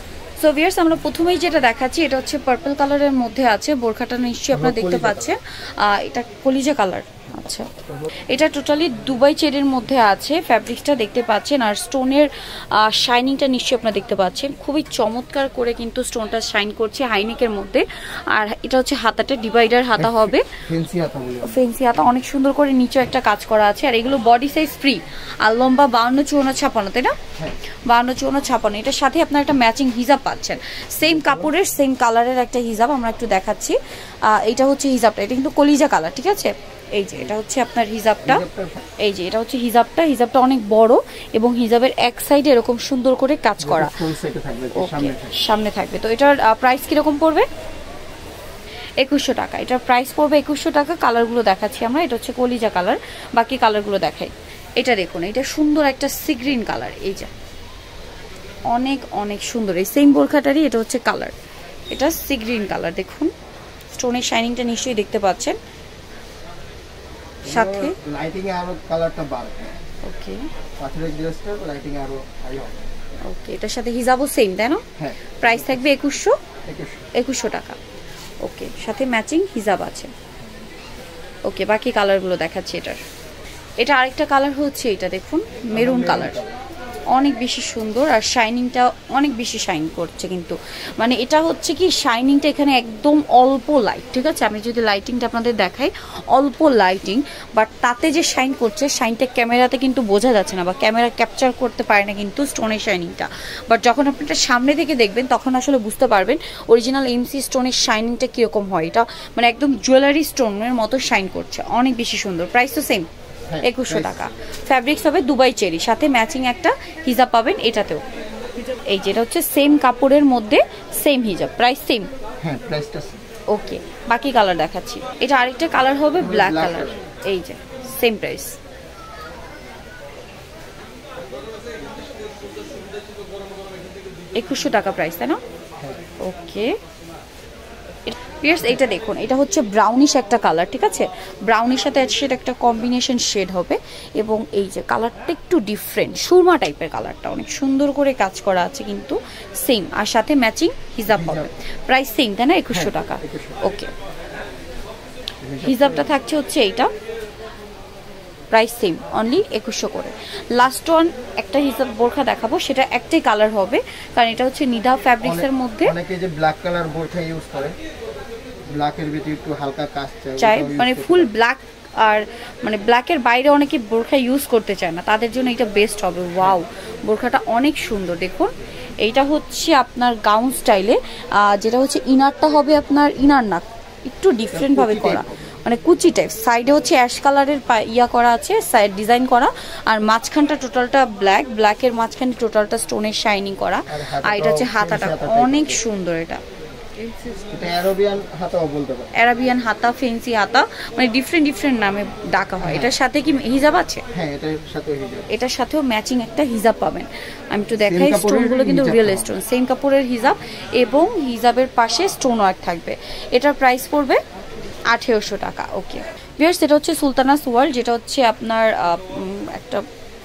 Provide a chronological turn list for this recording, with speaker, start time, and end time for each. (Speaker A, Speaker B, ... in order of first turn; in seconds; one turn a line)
Speaker A: 0.4-7.7
Speaker B: 4.5-5.3
Speaker A: 8.3-20.5
Speaker B: 20.0-21.6
Speaker A: 21.4-27.2
Speaker A: 27.9-38.4
Speaker B: 31.0-31.5
Speaker B: 38.2-38.8
Speaker A: 39.0-44.0
Speaker B: 43.6-45.4
Speaker A: 44.7-47.5
Speaker A: 49.0-57.3
Speaker A: 58.7-61.3
Speaker A: 61.9-63.3
Speaker A: 63.9-65.6
Speaker B: 67.4-69.8
Speaker A: 67.4-68.0
Speaker A: 70.0-70.5
Speaker B: 70.8-72.9
Speaker A: 73.2-74.8
Speaker B: 75.0-75.9
Speaker A: 75.4-76.3
Speaker B: 76.6-77.0
Speaker A: 77.1-77.8
Speaker A: 78.4-80.1
Speaker A: 81.5-83.0
Speaker A: 83.8-86.4
Speaker B: 85.7-86.5
Speaker A: 87.1-113.1
Speaker B: 113.5-114.2
Speaker A: 113.6-118.0
Speaker A: 118.8-122.1
Speaker B: 122.4-123.2
Speaker A: 123.5-128.6
Speaker B: 126.2-127.0
Speaker A: 134.3-135.4
Speaker A: 136.2-136.7
Speaker A: 138.1-153.9
Speaker B: 151.1-151.5
Speaker B: 152.7-153.7
Speaker B: 155.4-156.1
Speaker A: 155.6-156.9
Speaker A: 158.5-165.9
Speaker B: 165.2-167.7
Speaker B: 168.7-171.3
Speaker A: 170.4-196.4
Speaker B: 184.5-185.5
Speaker B: 193.9-195.8
Speaker B: 197.5-199.1
Speaker A: 199.1-204.0
Speaker B: 202.6-203.0
Speaker B: 204.1-205.3
Speaker A: 205.3-214.2
Speaker B: 207.8-209.3
Speaker A: 214.9-219.8